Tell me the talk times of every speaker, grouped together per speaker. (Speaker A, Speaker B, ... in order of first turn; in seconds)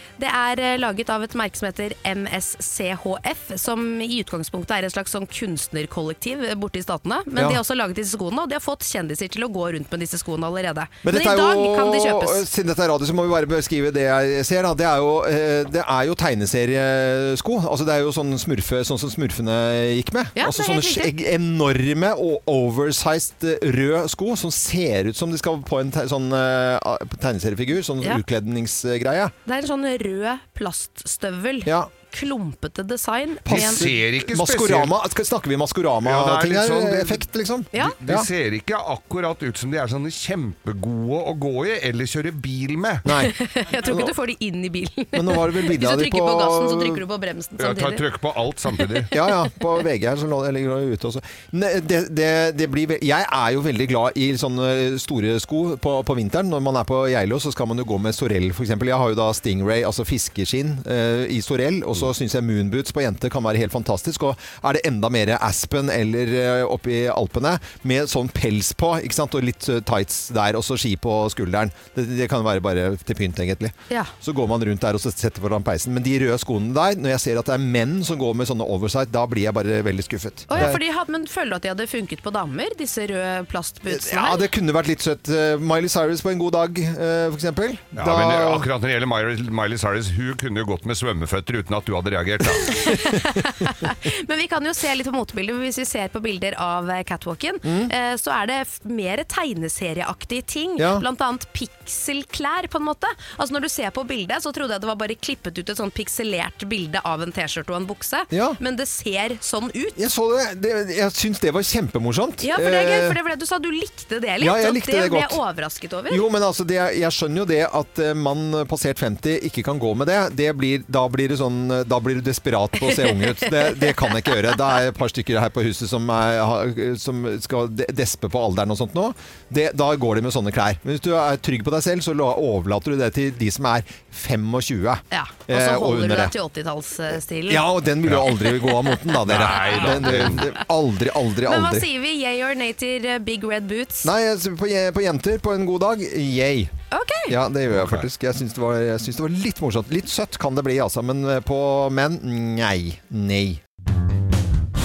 Speaker A: 0.2-12.5, 20.4-21.1, 29.5-33.9, 43.1-48.0, 80.5-84.5, 92.7-110.0, 112.4-116.2, 122.8-124.1, 135.1-137.7, 139.8-140.4, 141.5-144.1, 146.9-147.3
Speaker B: 11.0-29.3, 31.6-31.9, 33.5-38.3, 43.0-44.1, 45.1-47.0, 49.1-80.8, 83.9-88.7, 97.6-97.9, 100.8-101.0, 108.3-108.6, 110.0-113.2, 114.4-115.4, 116.1-136.3, 137.5-141.9, 144.0-146.7, 147.3-153.6
Speaker C: 33.5-34.9, 36.0-37.2, 37.8-43.0, 47.6-49.1, 88.0-92.9, 139.3-140.5, 147.7-148.1